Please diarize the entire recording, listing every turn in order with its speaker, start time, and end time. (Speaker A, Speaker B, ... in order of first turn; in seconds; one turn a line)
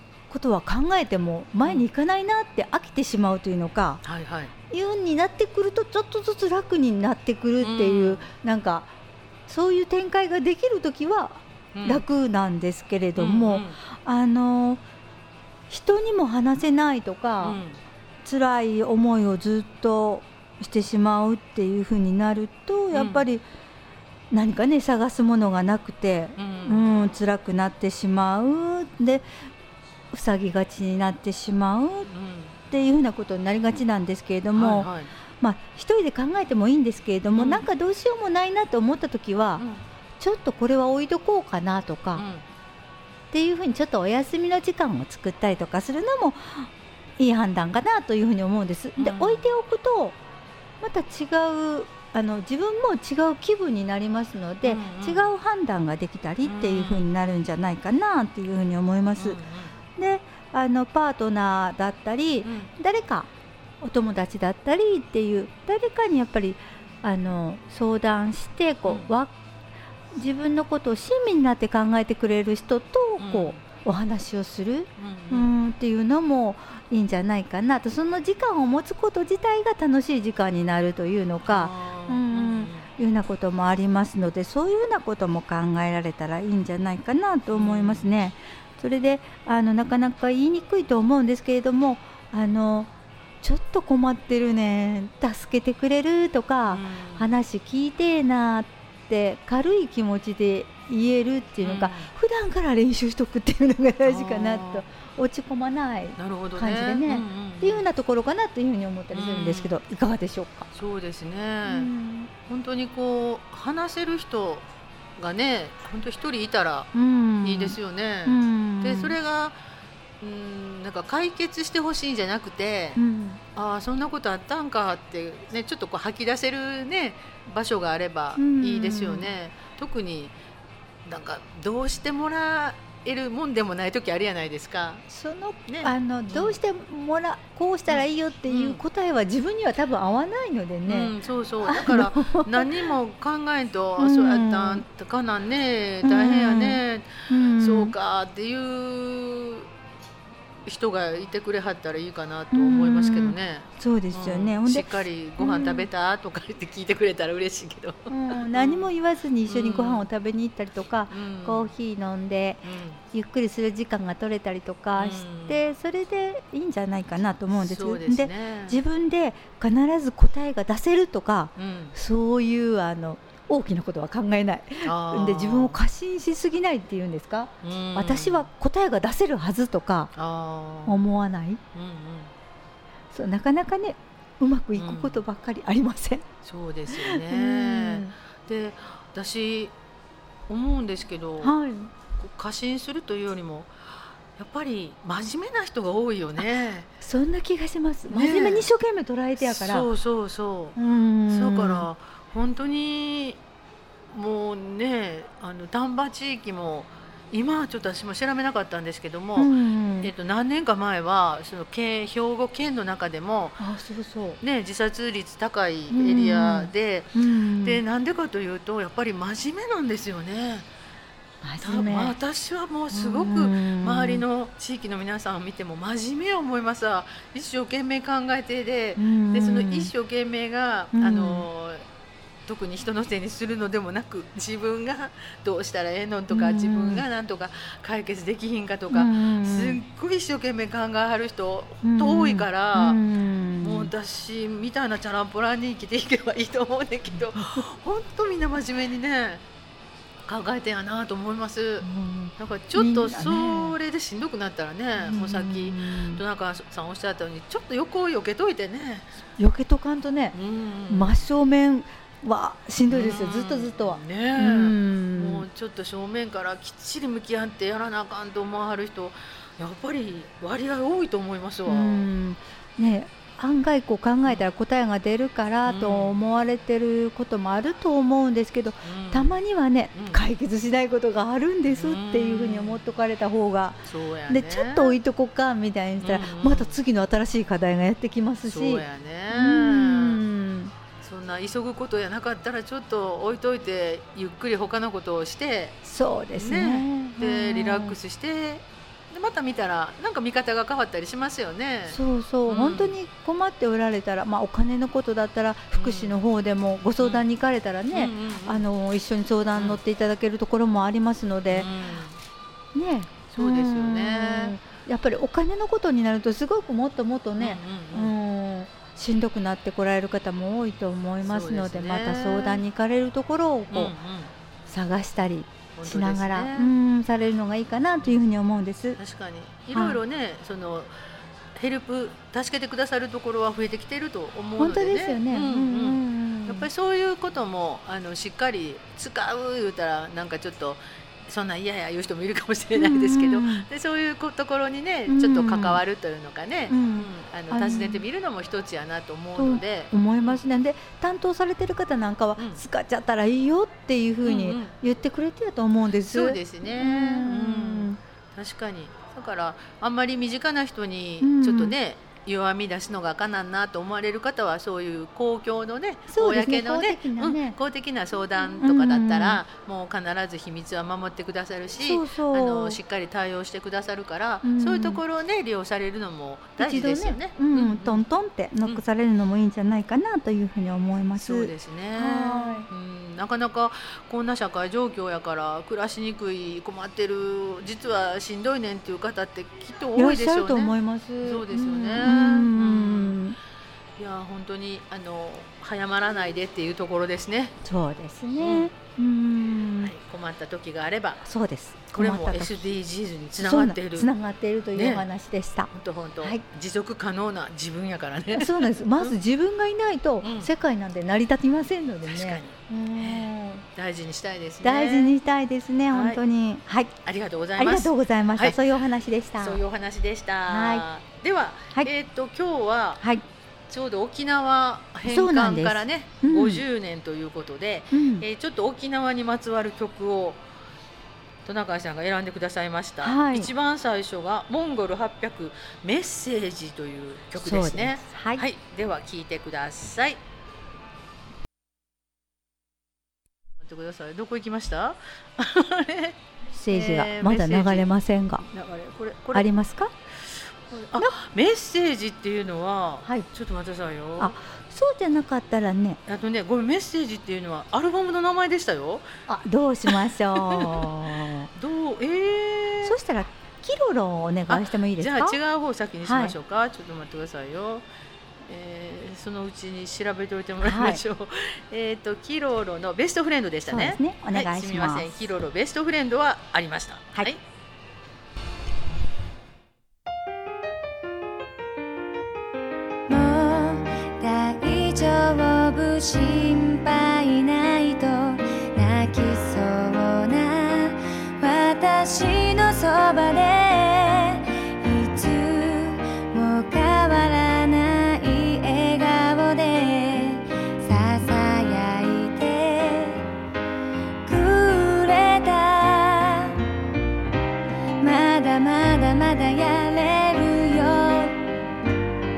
Speaker A: 0.3-4.0
Speaker B: 4.0-4.5
Speaker A: 4.7-8.9
Speaker B: 7.6-8.3
Speaker A: 9.5-14.8
Speaker B: 11.7-12.0
Speaker B: 13.2-13.8
Speaker A: 15.7-17.6
Speaker B: 17.4-17.8
Speaker A: 18.2-23.4
Speaker B: 22.9-23.2
Speaker A: 24.3-29.3
Speaker B: 26.4-26.9
Speaker A: 30.1-32.1
Speaker B: 32.1-32.6
Speaker A: 32.7-34.9
Speaker B: 34.5-35.1
Speaker A: 35.4-39.6
Speaker B: 37.3-37.6
Speaker B: 39.6-39.8
Speaker A: 40.2-42.2
Speaker B: 42.1-42.4
Speaker A: 43.3-50.2
Speaker B: 49.0-49.5
Speaker A: 50.8-59.4
Speaker B: 54.6-55.3
Speaker B: 56.4-57.1
Speaker B: 59.2-59.7
Speaker A: 60.0-63.3
Speaker B: 62.4-62.7
Speaker A: 63.8-69.3
Speaker B: 68.8-69.1
Speaker A: 70.1-92.9
Speaker B: 73.2-73.6
Speaker B: 75.0-75.5
Speaker B: 81.5-82.9
Speaker B: 87.5-88.1
Speaker A: 93.4-110.7
Speaker B: 96.7-97.3
Speaker B: 101.6-102.1
Speaker B: 104.0-104.8
Speaker B: 106.2-107.8
Speaker B: 109.1-109.8
Speaker B: 110.7-111.9
Speaker A: 111.7-112.3
Speaker B: 112.5-114.7
Speaker B: 115.2-116.9
Speaker A: 116.9-119.2
Speaker B: 117.4-119.5
Speaker B: 120.2-123.0
Speaker A: 123.0-123.4
Speaker B: 123.5-130.3
Speaker A: 128.4-129.3
Speaker B: 131.1-135.0
Speaker A: 135.1-142.8
Speaker B: 135.7-136.5
Speaker B: 137.9-138.8
Speaker B: 140.9-149.7
Speaker A: 144.0-144.8
Speaker A: 146.0-147.9
Speaker B: 150.7-158.9
Speaker A: 152.5-155.9
Speaker A: 158.1-180.1
Speaker B: 159.5-160.1
Speaker B: 161.1-161.7
Speaker B: 162.6-163.0
Speaker B: 164.9-165.6
Speaker B: 167.6-168.8
Speaker B: 171.6-171.9
Speaker B: 174.8-175.8
Speaker B: 177.6-178.5
Speaker B: 180.2-181.0
Speaker A: 180.8-181.6
Speaker B: 181.7-182.3
Speaker A: 183.1-186.2
Speaker B: 184.8-185.2
Speaker B: 186.4-189.7
Speaker A: 186.9-188.1
Speaker B: 190.5-191.6
Speaker A: 191.4-191.9
Speaker B: 192.2-196.9
Speaker A: 197.0-199.9
Speaker B: 198.1-198.7
Speaker B: 199.4-200.8
Speaker A: 200.8-201.8
Speaker B: 201.3-203.4
Speaker B: 204.1-213.6
Speaker A: 209.4-210.1
Speaker A: 213.6-214.4
Speaker B: 214.4-220.7
Speaker A: 215.9-217.8
Speaker A: 221.4-222.2
Speaker B: 221.6-231.8
Speaker A: 222.9-224.2
Speaker A: 229.0-229.9
Speaker A: 230.9-231.5
Speaker B: 232.5-243.0
Speaker A: 236.3-237.0
Speaker A: 238.9-239.8
Speaker A: 241.8-243.9
Speaker B: 243.6-249.4
Speaker B: 250.2-259.2
Speaker A: 251.8-253.7
Speaker A: 255.0-256.2
Speaker A: 259.4-260.4
Speaker B: 260.3-261.1
Speaker A: 260.9-265.4
Speaker B: 262.9-272.1
Speaker A: 271.7-290.7
Speaker B: 275.6-276.2
Speaker B: 278.8-279.4
Speaker B: 279.9-280.2
Speaker B: 281.6-282.8
Speaker B: 283.9-285.0
Speaker B: 286.0-286.8
Speaker B: 288.5-290.2
Speaker B: 291.0-295.8
Speaker A: 295.8-297.9
Speaker B: 296.3-302.9
Speaker A: 301.9-311.7
Speaker B: 305.7-306.1
Speaker B: 307.9-308.6
Speaker B: 309.5-309.8
Speaker B: 311.5-312.2
Speaker A: 312.7-323.9
Speaker B: 313.3-314.5
Speaker B: 317.4-318.1
Speaker B: 321.2-322.6
Speaker B: 323.7-324.3
Speaker A: 324.7-329.0
Speaker B: 325.8-326.7
Speaker B: 329.0-330.9
Speaker B: 331.5-350.4
Speaker A: 334.6-336.7
Speaker A: 342.8-343.7
Speaker A: 345.1-345.8
Speaker A: 346.7-348.0
Speaker A: 349.4-358.0
Speaker B: 354.2-354.7
Speaker B: 356.0-378.0
Speaker A: 361.2-361.7
Speaker A: 366.1-367.6
Speaker A: 368.6-369.4
Speaker A: 371.8-372.8
Speaker A: 374.4-375.0
Speaker A: 376.6-382.7
Speaker B: 381.1-393.2
Speaker A: 389.9-393.4
Speaker B: 394.0-397.5
Speaker A: 397.6-399.9
Speaker B: 398.4-398.7
Speaker B: 399.8-401.2
Speaker A: 401.2-402.7
Speaker B: 401.9-404.1
Speaker A: 403.4-405.7
Speaker B: 404.7-405.1
Speaker B: 405.7-409.1
Speaker A: 408.3-413.6
Speaker B: 410.2-410.5
Speaker B: 412.1-415.1
Speaker A: 414.6-416.9
Speaker B: 415.9-416.2
Speaker B: 417.0-418.6
Speaker A: 417.6-419.6
Speaker B: 419.4-423.1
Speaker A: 420.5-420.9
Speaker B: 423.7-430.4
Speaker A: 425.0-426.6
Speaker A: 427.9-428.2
Speaker B: 431.4-440.2
Speaker A: 433.0-433.5
Speaker A: 437.4-438.4
Speaker B: 443.6-446.1
Speaker A: 446.5-448.4
Speaker B: 446.7-449.5
Speaker A: 449.3-449.9
Speaker B: 450.3-454.3
Speaker A: 454.2-456.0
Speaker B: 456.1-459.1
Speaker A: 459.3-461.5
Speaker B: 459.9-460.9
Speaker B: 461.5-463.0
Speaker A: 462.8-465.4
Speaker B: 464.5-467.8
Speaker A: 466.0-466.3
Speaker B: 468.5-477.4
Speaker A: 470.6-471.0
Speaker A: 473.7-475.1
Speaker C: 483.1-503.2
Speaker C: 504.2-506.6
Speaker C: 508.0-511.4